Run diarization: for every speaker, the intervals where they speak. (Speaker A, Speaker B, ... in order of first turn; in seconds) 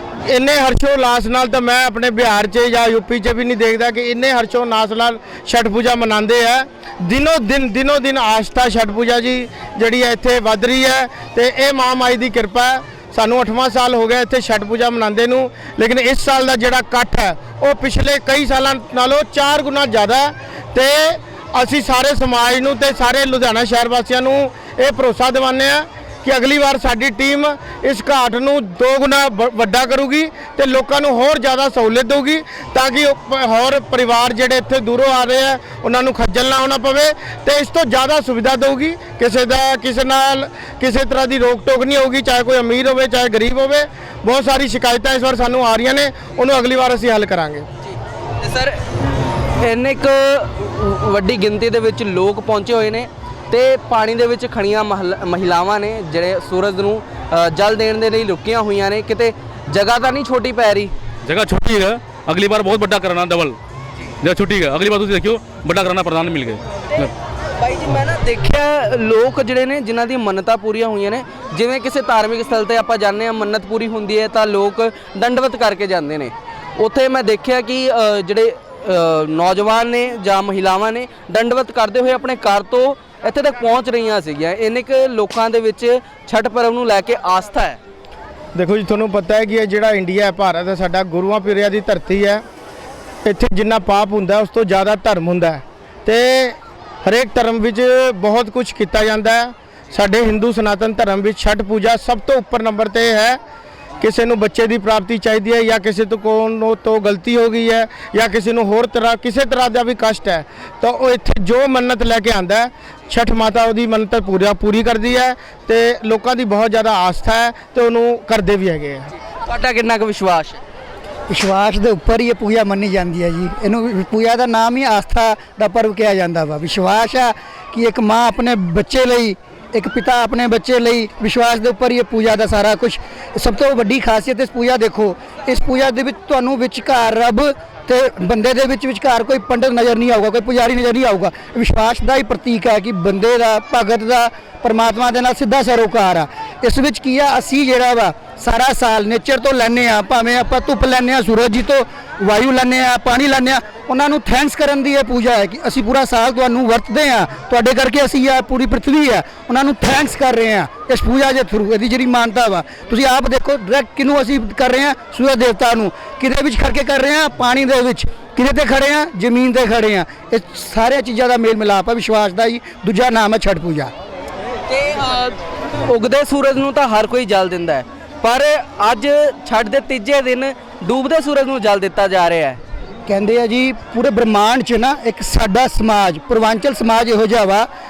Speaker A: 0.3-47.7, 88.5-92.4, 93.2-103.4, 104.0-119.1
Speaker B: 47.9-48.8, 49.5-60.9, 67.6-87.8, 119.4-120.6, 174.7-182.6
Speaker C: 61.2-63.6, 64.2-67.1
Speaker D: 121.3-173.9, 183.1-187.7